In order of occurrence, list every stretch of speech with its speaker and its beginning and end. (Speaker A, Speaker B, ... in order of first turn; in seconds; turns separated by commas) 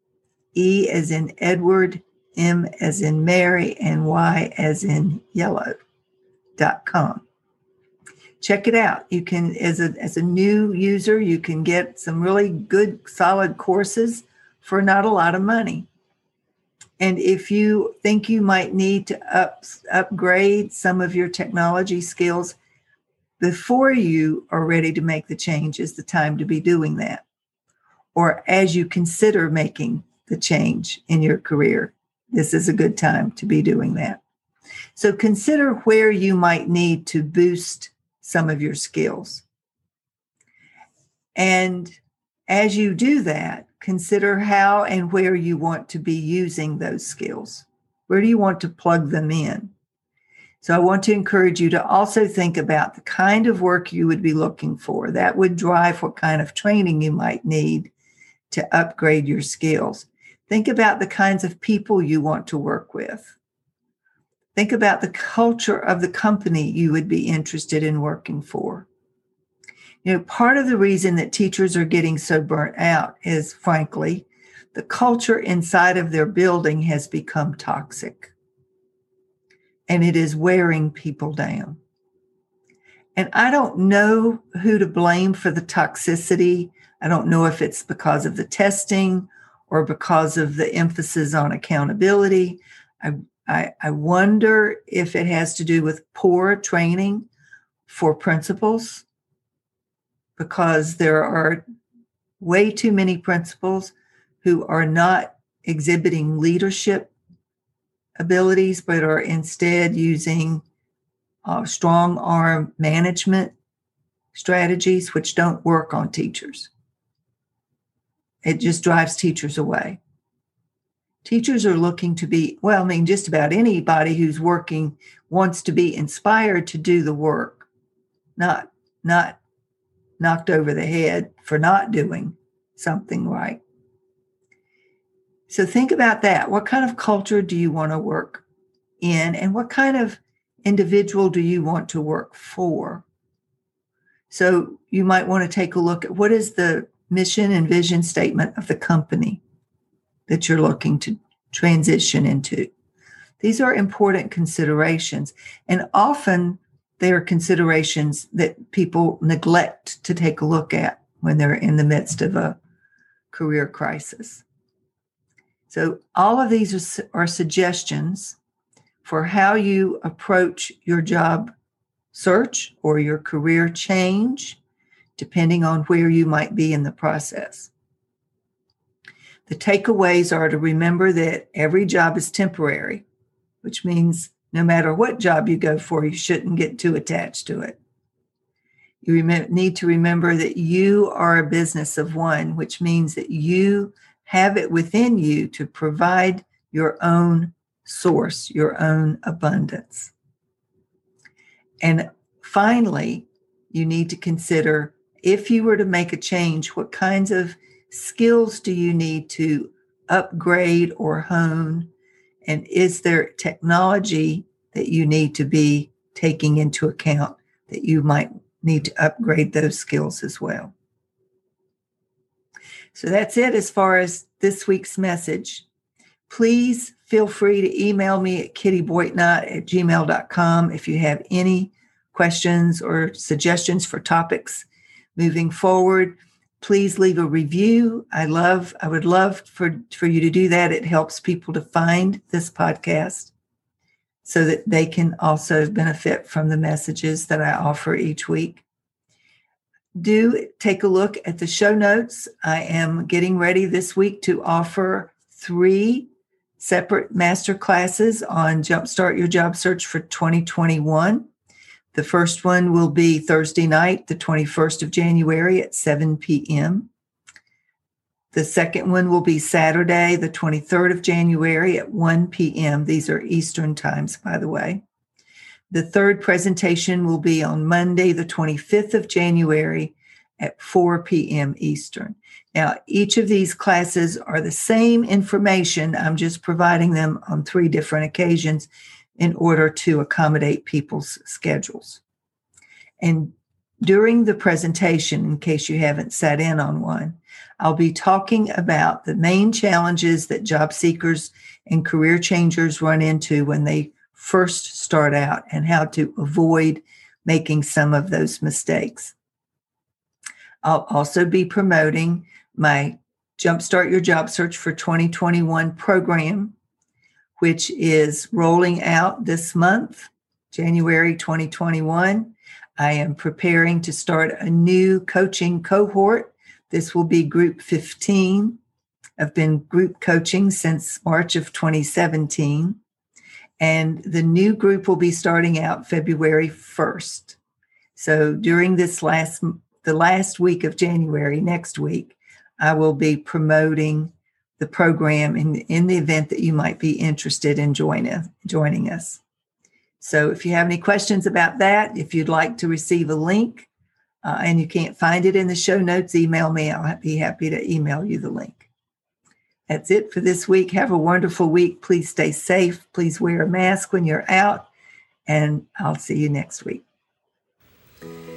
Speaker A: 0.6-5.8, Speaker A: 6.6-7.2, Speaker A: 8.4-15.9, Speaker A: 17.0-22.6, Speaker A: 23.4-27.2, Speaker A: 28.1-34.2, Speaker A: 35.0-39.5, Speaker A: 41.4-49.7, Speaker A: 50.6-57.9, Speaker A: 58.5-63.4, Speaker A: 64.5-68.9, Speaker A: 70.0-78.3, Speaker A: 79.9-81.8, Speaker A: 83.2-97.3, Speaker A: 97.9-99.0, Speaker A: 100.4-101.6, Speaker A: 102.4-107.1, Speaker A: 108.2-110.6, Speaker A: 111.5-113.5, Speaker A: 114.3-116.7, Speaker A: 118.4-120.0, Speaker A: 121.2-127.7, Speaker A: 128.4-129.4, Speaker A: 130.2-133.6, Speaker A: 135.5-138.4, Speaker A: 139.0-143.1, Speaker A: 144.3-149.4, Speaker A: 150.3-152.7, Speaker A: 153.4-162.6, Speaker A: 163.3-164.4, Speaker A: 165.7-168.4, Speaker A: 169.0-171.5, Speaker A: 172.1-174.6, Speaker A: 175.2-177.7, Speaker A: 179.5-183.1, Speaker A: 183.6-187.8, Speaker A: 189.0-200.1, Speaker A: 201.8-211.9, Speaker A: 212.4-220.7, Speaker A: 222.9-225.7, Speaker A: 226.3-243.3, Speaker A: 244.2-248.6, Speaker A: 250.0-261.3, Speaker A: 261.9-266.9, Speaker A: 268.3-274.8, Speaker A: 275.7-292.0, Speaker A: 293.0-309.1, Speaker A: 310.6-316.6, Speaker A: 317.4-328.6, Speaker A: 329.2-332.8, Speaker A: 333.6-337.4, Speaker A: 338.0-349.2, Speaker A: 350.0-353.7, Speaker A: 354.2-358.7, Speaker A: 359.7-364.7, Speaker A: 365.3-366.8